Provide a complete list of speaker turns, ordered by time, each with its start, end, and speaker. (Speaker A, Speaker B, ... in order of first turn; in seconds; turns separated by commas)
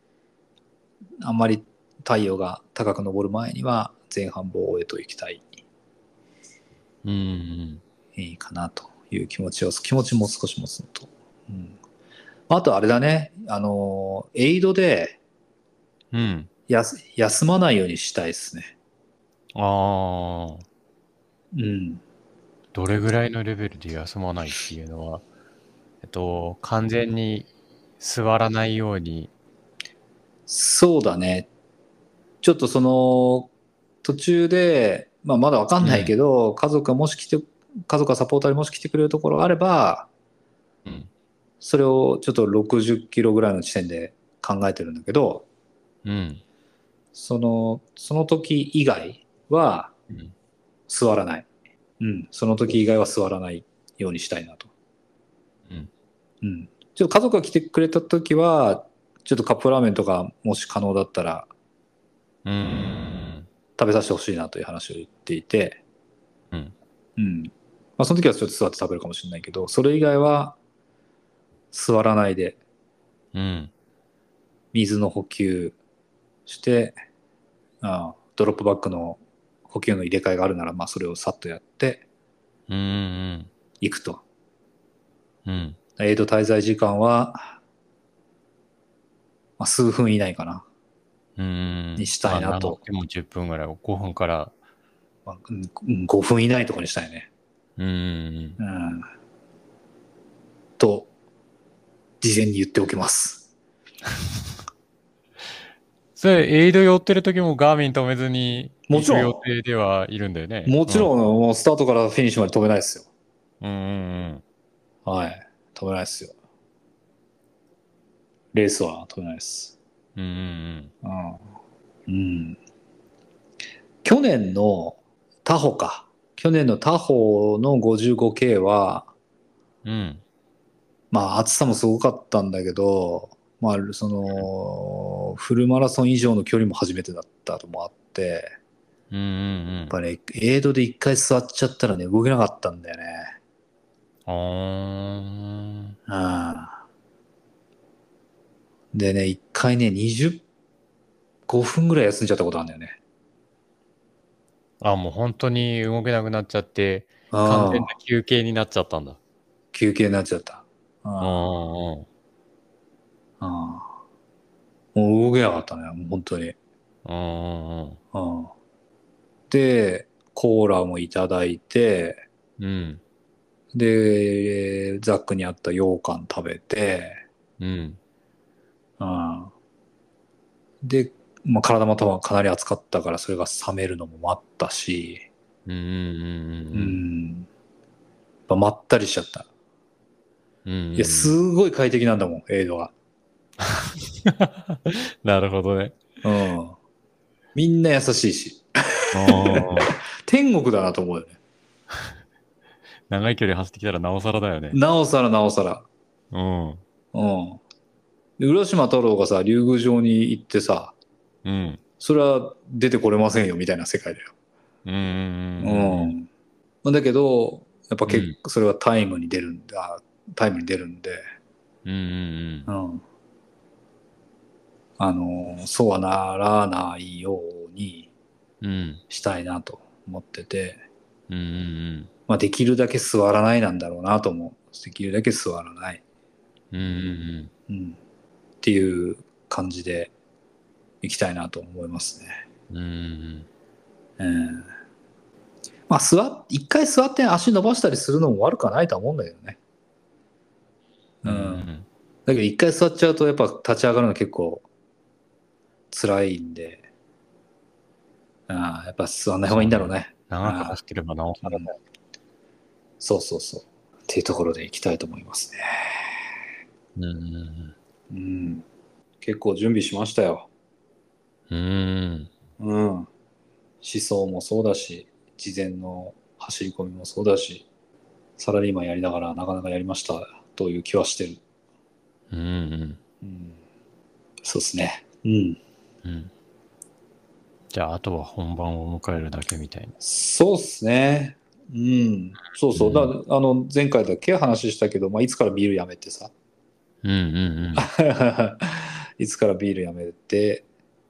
Speaker A: 1.2-5.5, Speaker B: 7.0-7.8, Speaker A: 8.2-11.8, Speaker A: 12.5-15.2, Speaker B: 16.1-16.5, Speaker A: 16.7-18.7, Speaker B: 19.5-20.6, Speaker A: 21.5-22.0, Speaker B: 22.7-25.2, Speaker B: 26.0-27.5, Speaker B: 28.0-29.3, Speaker A: 30.5-31.5, Speaker A: 32.4-33.5, Speaker A: 34.0-40.1, Speaker B: 35.8-36.1, Speaker B: 40.8-41.1, Speaker A: 41.6-45.5, Speaker B: 46.0-46.4, Speaker A: 47.1-49.9, Speaker A: 50.9-51.5, Speaker A: 52.0-54.7, Speaker A: 56.4-61.5, Speaker B: 62.4-63.5, Speaker A: 63.8-65.8, Speaker A: 67.2-70.6, Speaker A: 71.7-72.6, Speaker B: 73.3-73.7, Speaker A: 74.7-75.8, Speaker A: 76.5-77.0, Speaker A: 77.8-82.0, Speaker B: 82.7-83.5, Speaker A: 83.8-84.2, Speaker B: 85.4-85.8, Speaker A: 86.0-87.6, Speaker A: 89.6-90.7, Speaker B: 91.4-94.5, Speaker A: 92.0-92.8, Speaker A: 95.2-97.3, Speaker B: 97.8-98.6, Speaker A: 98.6-99.1, Speaker A: 100.8-101.1, Speaker A: 102.2-103.5, Speaker B: 106.2-111.1, Speaker A: 108.9-109.4, Speaker A: 110.7-113.1, Speaker B: 113.6-114.4, Speaker A: 115.0-116.3, Speaker A: 118.5-119.8, Speaker B: 120.2-120.9, Speaker A: 121.0-121.4, Speaker A: 122.1-122.6, Speaker A: 124.0-129.1, Speaker B: 129.8-130.2, Speaker A: 131.1-138.5, Speaker B: 139.1-139.9, Speaker A: 139.9-143.3, Speaker B: 144.2-146.0, Speaker A: 146.1-146.8, Speaker A: 148.9-150.4, Speaker A: 151.5-153.0, Speaker B: 154.8-159.2, Speaker A: 157.3-157.9, Speaker A: 159.7-161.5, Speaker B: 161.2-162.1, Speaker A: 163.4-163.9, Speaker A: 164.9-166.6, Speaker B: 167.0-168.0, Speaker A: 168.1-168.5, Speaker A: 169.5-172.2, Speaker B: 172.6-173.0, Speaker A: 173.7-177.2, Speaker B: 177.6-178.0, Speaker A: 179.0-179.5, Speaker A: 180.8-185.2, Speaker B: 185.7-187.0, Speaker A: 186.7-187.5, Speaker A: 188.5-189.5, Speaker B: 190.6-191.3, Speaker A: 190.9-192.9, Speaker B: 193.6-196.0, Speaker A: 196.2-196.8, Speaker A: 197.5-201.4, Speaker B: 199.1-199.9, Speaker B: 203.1-204.8, Speaker A: 204.7-205.9, Speaker B: 206.3-206.8, Speaker A: 207.1-207.6, Speaker A: 208.4-210.9, Speaker B: 211.4-211.8, Speaker A: 212.0-214.3, Speaker B: 214.8-216.1, Speaker A: 215.6-216.3, Speaker A: 216.8-221.2, Speaker B: 218.1-218.3, Speaker B: 221.8-222.7, Speaker A: 222.7-223.0, Speaker A: 225.0-228.1, Speaker B: 228.6-229.0, Speaker A: 229.1-230.8, Speaker B: 231.3-232.1, Speaker A: 232.3-236.0, Speaker B: 236.7-237.5, Speaker A: 237.7-238.0, Speaker A: 238.6-240.1, Speaker A: 241.0-242.4, Speaker B: 242.7-243.5, Speaker A: 244.2-244.7, Speaker A: 245.9-249.6, Speaker A: 251.2-251.7, Speaker B: 251.2-251.9, Speaker A: 252.2-254.6, Speaker A: 255.9-256.8, Speaker A: 258.5-260.8, Speaker B: 259.5-261.8, Speaker A: 261.4-261.7, Speaker A: 263.0-266.2, Speaker B: 266.9-267.8, Speaker A: 268.1-268.6, Speaker A: 269.2-270.5, Speaker B: 271.5-272.3, Speaker A: 272.6-273.1, Speaker A: 273.8-277.6, Speaker A: 278.4-281.4, Speaker B: 282.3-283.0, Speaker A: 283.2-283.6, Speaker A: 284.4-285.6, Speaker B: 286.0-286.3, Speaker B: 287.7-289.9, Speaker A: 290.0-296.3, Speaker B: 292.7-293.1, Speaker B: 297.0-297.9, Speaker A: 297.8-300.6